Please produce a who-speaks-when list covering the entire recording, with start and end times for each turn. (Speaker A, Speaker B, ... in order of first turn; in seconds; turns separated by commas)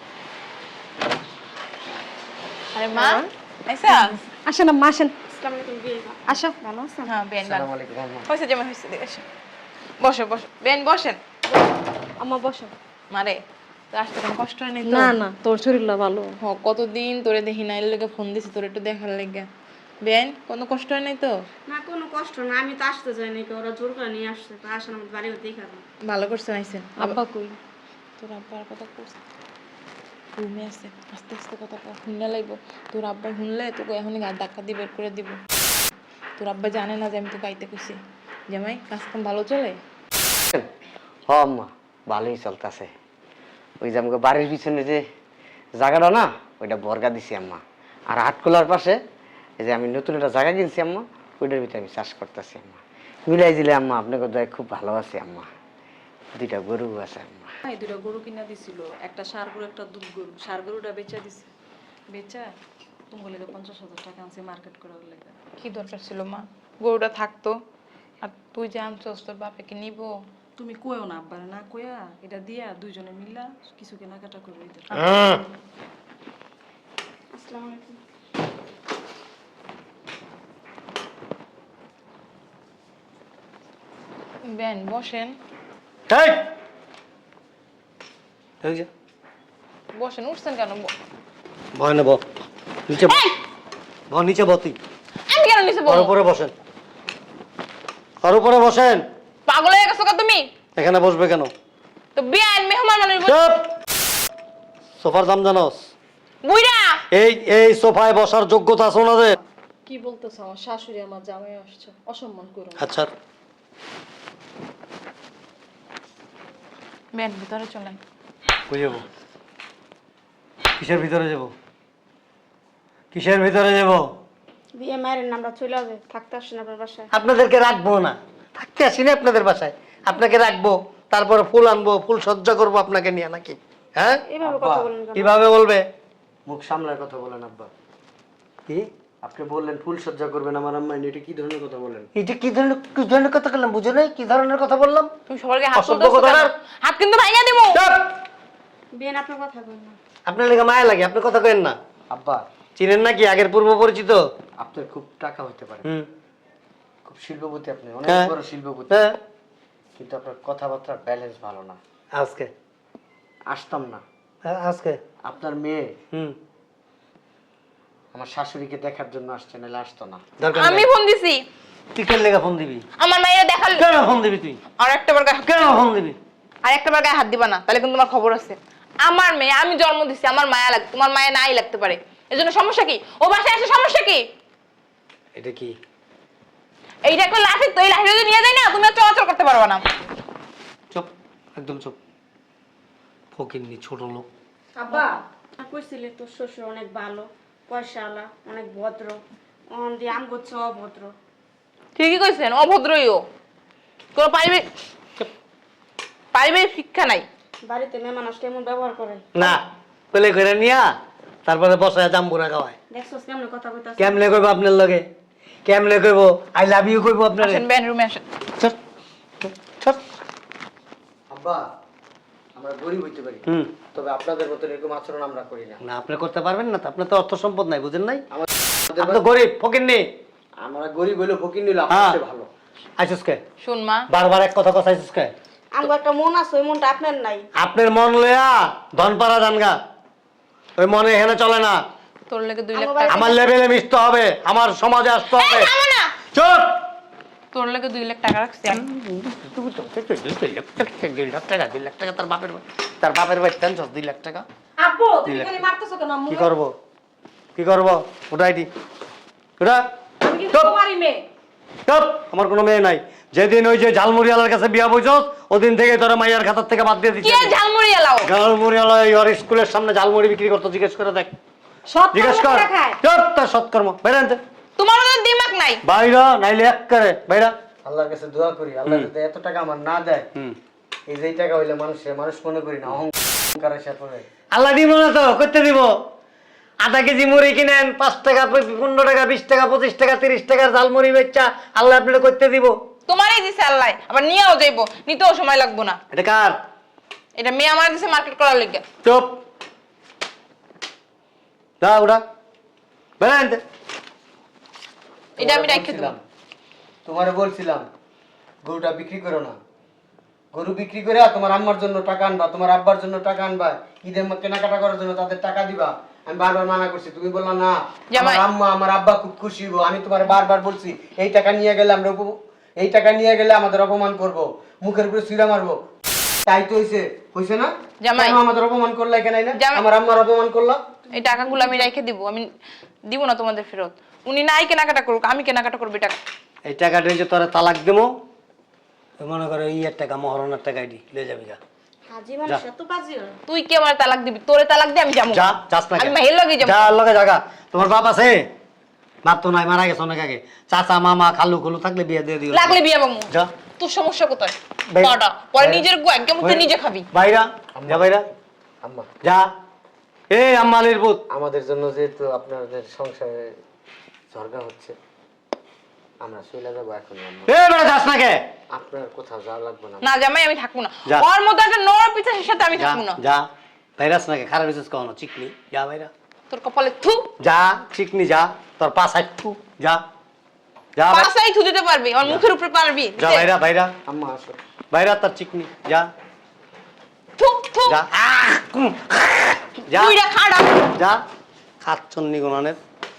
Speaker A: 2.7-4.2, Speaker B: 3.0-3.3, Speaker B: 4.5-5.1, Speaker C: 5.3-7.1, Speaker B: 6.3-6.9, Speaker A: 7.0-7.7, Speaker D: 7.4-8.3, Speaker A: 8.3-9.2, Speaker A: 10.0-11.2, Speaker B: 12.2-12.7, Speaker A: 13.1-13.4, Speaker A: 13.9-15.2, Speaker B: 14.8-16.3, Speaker A: 16.4-19.5, Speaker A: 20.0-21.3, Speaker C: 21.7-25.8, Speaker A: 26.1-27.2, Speaker B: 27.0-27.6, Speaker A: 28.2-29.2, Speaker A: 30.4-35.4, Speaker A: 36.4-38.0, Speaker A: 38.5-39.8, Speaker D: 41.3-42.9, Speaker D: 43.8-45.0, Speaker D: 45.8-49.0, Speaker D: 49.6-55.5, Speaker D: 56.3-57.5, Speaker B: 57.7-61.5, Speaker B: 62.1-62.5, Speaker B: 63.1-65.4, Speaker A: 65.6-67.6, Speaker A: 68.2-70.1, Speaker B: 70.6-75.5, Speaker E: 74.9-75.4, Speaker C: 77.3-78.0, Speaker A: 84.5-85.4, Speaker E: 86.1-86.4, Speaker E: 88.6-88.9, Speaker A: 89.9-90.9, Speaker E: 91.8-92.2, Speaker E: 92.9-93.2, Speaker A: 92.9-93.4, Speaker E: 94.1-94.8, Speaker A: 95.3-96.1, Speaker E: 95.9-96.5, Speaker E: 98.2-99.0, Speaker A: 99.5-100.5, Speaker E: 100.8-101.5, Speaker A: 102.2-103.4, Speaker E: 103.2-103.8, Speaker E: 105.0-105.9, Speaker A: 106.4-107.0, Speaker E: 107.1-109.4, Speaker B: 109.9-112.9, Speaker E: 112.8-113.1, Speaker A: 117.1-118.0, Speaker E: 118.7-119.0, Speaker E: 120.8-121.5, Speaker E: 123.1-124.1, Speaker C: 124.7-127.1, Speaker E: 127.1-134.2, Speaker C: 134.3-135.3, Speaker D: 134.4-134.9, Speaker E: 135.2-135.8, Speaker D: 136.5-137.7, Speaker D: 139.2-142.1, Speaker E: 142.1-145.1, Speaker A: 145.3-147.8, Speaker E: 145.8-146.5, Speaker E: 147.7-148.1, Speaker C: 148.9-150.0, Speaker E: 150.3-151.8, Speaker D: 152.1-152.5, Speaker E: 152.8-154.2, Speaker D: 154.6-155.9, Speaker D: 157.1-159.0, Speaker E: 158.1-158.3, Speaker E: 158.9-159.2, Speaker D: 160.0-161.8, Speaker E: 162.1-162.5, Speaker D: 163.5-164.0, Speaker E: 164.4-165.0, Speaker D: 165.2-165.9, Speaker D: 168.1-170.2, Speaker E: 170.4-170.9, Speaker A: 170.6-171.4, Speaker E: 171.9-172.8, Speaker A: 173.0-173.8, Speaker E: 173.8-174.6, Speaker A: 174.8-175.5, Speaker E: 175.4-176.2, Speaker A: 176.6-184.2, Speaker E: 185.4-185.7, Speaker A: 187.0-189.9, Speaker E: 190.9-191.9, Speaker E: 193.3-194.3, Speaker B: 194.8-195.2, Speaker C: 194.9-201.1, Speaker A: 202.0-203.2, Speaker A: 204.2-204.7, Speaker A: 206.3-207.3, Speaker C: 207.6-209.6, Speaker E: 209.3-210.9, Speaker E: 211.5-212.8, Speaker C: 212.9-214.2, Speaker E: 214.0-215.1, Speaker E: 215.7-217.7, Speaker A: 217.4-218.2, Speaker E: 219.4-220.0, Speaker D: 221.3-221.6, Speaker D: 222.6-225.8, Speaker E: 223.5-223.7, Speaker E: 225.8-228.3, Speaker D: 228.3-229.2, Speaker E: 229.0-230.1, Speaker D: 230.6-232.5, Speaker E: 231.9-232.2, Speaker E: 233.0-233.4, Speaker A: 233.6-234.1, Speaker E: 234.1-235.3, Speaker C: 235.7-237.5, Speaker E: 237.6-239.8, Speaker E: 240.8-241.8, Speaker A: 242.3-243.3, Speaker C: 242.7-243.4, Speaker E: 243.1-245.7, Speaker A: 245.3-246.1, Speaker E: 246.3-246.8, Speaker A: 247.5-248.8, Speaker E: 248.7-254.4, Speaker B: 254.8-256.5, Speaker E: 255.2-255.6, Speaker E: 256.3-256.7, Speaker E: 257.6-258.7, Speaker B: 260.2-261.3, Speaker E: 260.5-260.8, Speaker E: 261.9-267.6, Speaker A: 267.2-268.3, Speaker E: 268.2-271.3, Speaker B: 271.9-273.0, Speaker E: 272.1-274.4, Speaker A: 274.8-275.8, Speaker E: 275.8-277.6, Speaker D: 277.8-280.3, Speaker D: 281.1-284.3, Speaker E: 284.5-285.9, Speaker E: 286.8-292.8, Speaker A: 293.1-296.0, Speaker E: 296.1-296.6, Speaker A: 297.4-298.8, Speaker E: 299.0-299.4, Speaker E: 301.8-302.2, Speaker E: 303.2-303.6, Speaker D: 305.4-306.2, Speaker A: 305.4-306.1, Speaker D: 307.1-307.9, Speaker D: 308.6-309.6, Speaker D: 310.5-325.8, Speaker A: 318.1-318.5, Speaker D: 326.5-330.8, Speaker A: 328.0-328.4, Speaker A: 329.6-329.9, Speaker A: 331.1-332.5, Speaker A: 333.1-336.2, Speaker E: 336.6-338.1, Speaker E: 339.2-341.6, Speaker C: 342.1-343.4, Speaker A: 343.5-346.9, Speaker E: 345.3-348.5, Speaker E: 349.2-353.5, Speaker A: 352.5-357.1, Speaker E: 354.9-355.9, Speaker E: 356.4-358.3, Speaker D: 357.8-358.1, Speaker D: 358.8-359.1, Speaker E: 359.2-359.5, Speaker E: 360.3-361.2, Speaker D: 361.3-363.5, Speaker D: 364.3-364.9, Speaker D: 366.2-367.5, Speaker E: 367.5-368.4, Speaker D: 368.7-370.2, Speaker A: 370.0-373.2, Speaker E: 372.8-373.5, Speaker E: 374.0-376.1, Speaker A: 376.5-377.3, Speaker E: 377.4-380.0, Speaker E: 381.0-381.3, Speaker A: 381.1-383.5, Speaker E: 383.2-383.9, Speaker D: 384.1-384.6, Speaker E: 384.9-386.1, Speaker A: 387.4-388.0, Speaker E: 387.9-390.2, Speaker A: 389.9-390.9, Speaker E: 390.9-391.2, Speaker E: 391.8-392.8